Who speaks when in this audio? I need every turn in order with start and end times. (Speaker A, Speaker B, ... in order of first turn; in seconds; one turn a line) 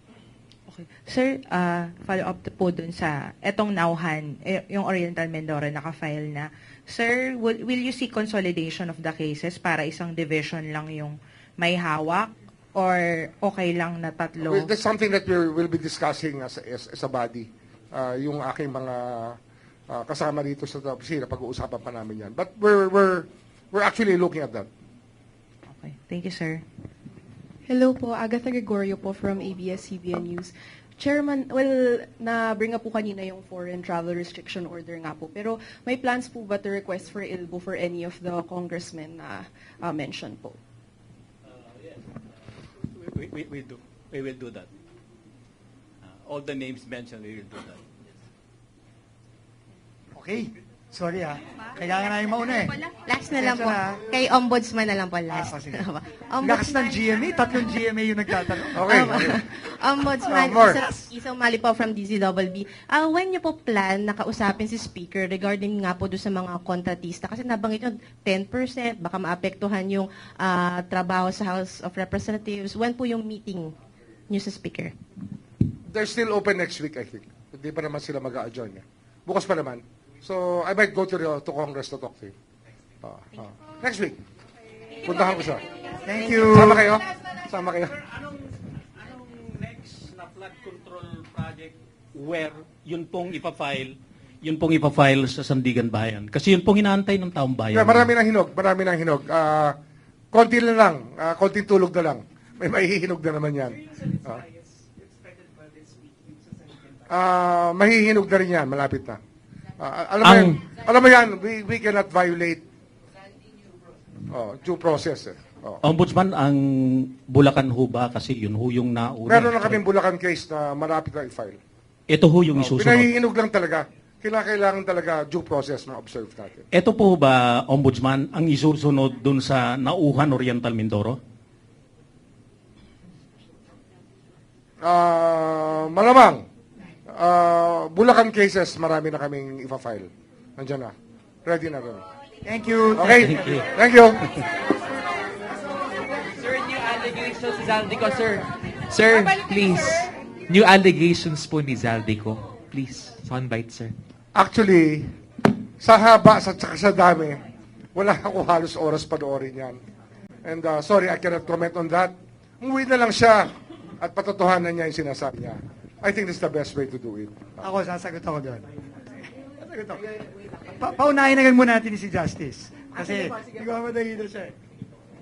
Speaker A: 0.7-14.7
Speaker B: 14.4-19.4
Speaker B: 19.9-24.7
Speaker A: 25.7-26.6
Speaker C: 27.7-40.6
Speaker D: 41.4-44.7
Speaker D: 46.0-48.1
Speaker E: 50.1-54.1
Speaker F: 52.9-57.2
Speaker E: 55.3-55.9
Speaker E: 56.4-59.4
Speaker B: 58.8-59.4
Speaker F: 58.9-73.8
Speaker B: 60.2-60.8
Speaker E: 60.3-60.9
Speaker F: 74.3-75.0
Speaker B: 75.9-82.3
Speaker B: 83.0-84.2
Speaker B: 85.0-85.7
Speaker E: 86.0-86.9
Speaker B: 86.4-87.9
Speaker D: 87.9-98.1
Speaker B: 97.7-99.8
Speaker B: 100.3-104.4
Speaker D: 106.0-106.8
Speaker B: 107.1-109.2
Speaker B: 109.8-112.6
Speaker D: 110.2-110.6
Speaker B: 114.3-115.8
Speaker D: 115.8-119.8
Speaker B: 119.3-121.6
Speaker D: 122.1-123.1
Speaker B: 122.6-126.7
Speaker D: 126.7-131.2
Speaker B: 134.8-136.4
Speaker B: 137.1-140.9
Speaker B: 141.5-142.0
Speaker E: 142.4-143.7
Speaker B: 143.0-144.4
Speaker D: 143.3-143.7
Speaker G: 146.3-153.9
Speaker B: 154.3-155.2
Speaker B: 155.8-157.4
Speaker B: 157.9-159.8
Speaker B: 160.4-167.6
Speaker E: 167.6-168.7
Speaker E: 169.4-174.6